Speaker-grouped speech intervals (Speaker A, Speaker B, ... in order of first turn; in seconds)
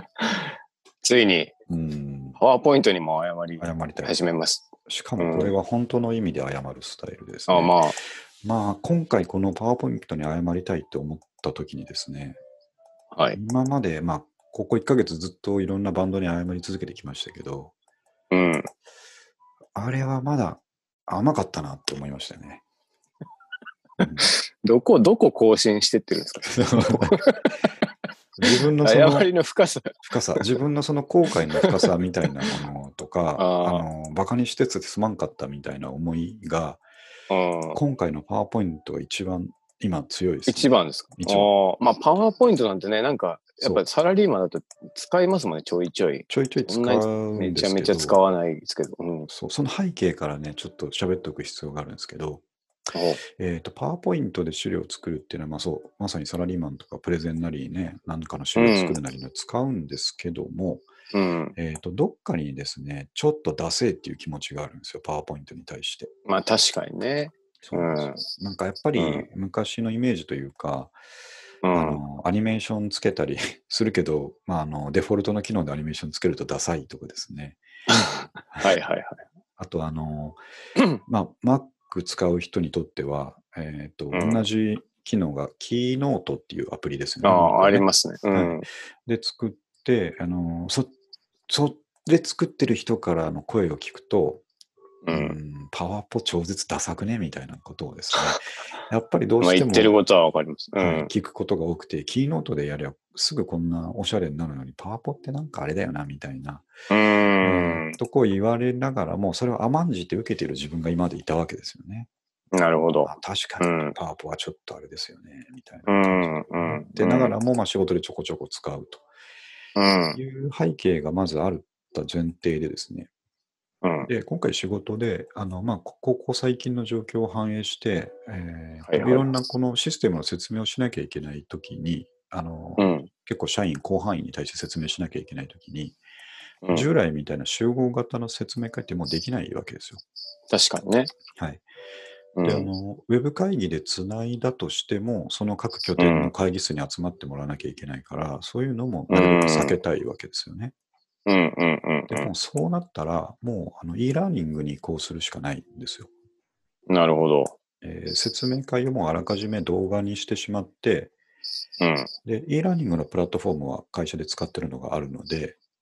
Speaker A: 0.2-1.5, 2.4-5.5, 7.5-8.0, 13.1-13.4, 18.3-18.7, 24.2-27.5, 28.4-30.5, 31.6-31.8, 33.4-33.9, 37.3-37.8, 40.5-49.3, 52.9-53.2, 58.5-59.0, 61.1-61.5, 66.2-68.2, 69.0-69.3, 71.6-72.0, 77.9-79.2, 84.1-84.5, 87.2-88.7, 95.0-95.4, 99.4-101.1, 106.9-108.0, 112.5-114.0, 115.9-117.3, 119.8-120.2, 123.8-124.1, 128.9-129.3, 132.8-133.1, 140.5-141.1, 142.3-142.7, 146.0-146.3, 149.1-149.8, 151.2-152.3, 156.9-157.6, 161.8-162.1
Speaker B: 1.7-2.4, 3.6-4.1, 4.8-7.8, 8.4-12.4, 13.3-17.7, 19.7-22.6, 24.0-24.3, 26.5-27.2, 28.4-29.3, 30.0-36.8, 37.7-41.5, 46.3-48.2, 49.3-52.4, 53.3-60.9, 61.5-66.1, 67.6-70.9, 71.7-77.6, 79.6-80.4, 81.1-90.9, 91.5-94.4, 95.1-100.0, 100.8-106.7, 107.4-112.1, 113.0-119.0, 120.1-123.1, 124.0-136.0, 136.7-140.0, 141.3-141.6, 142.4-150.7, 152.1-156.1, 157.8-161.1, 162.2-165.6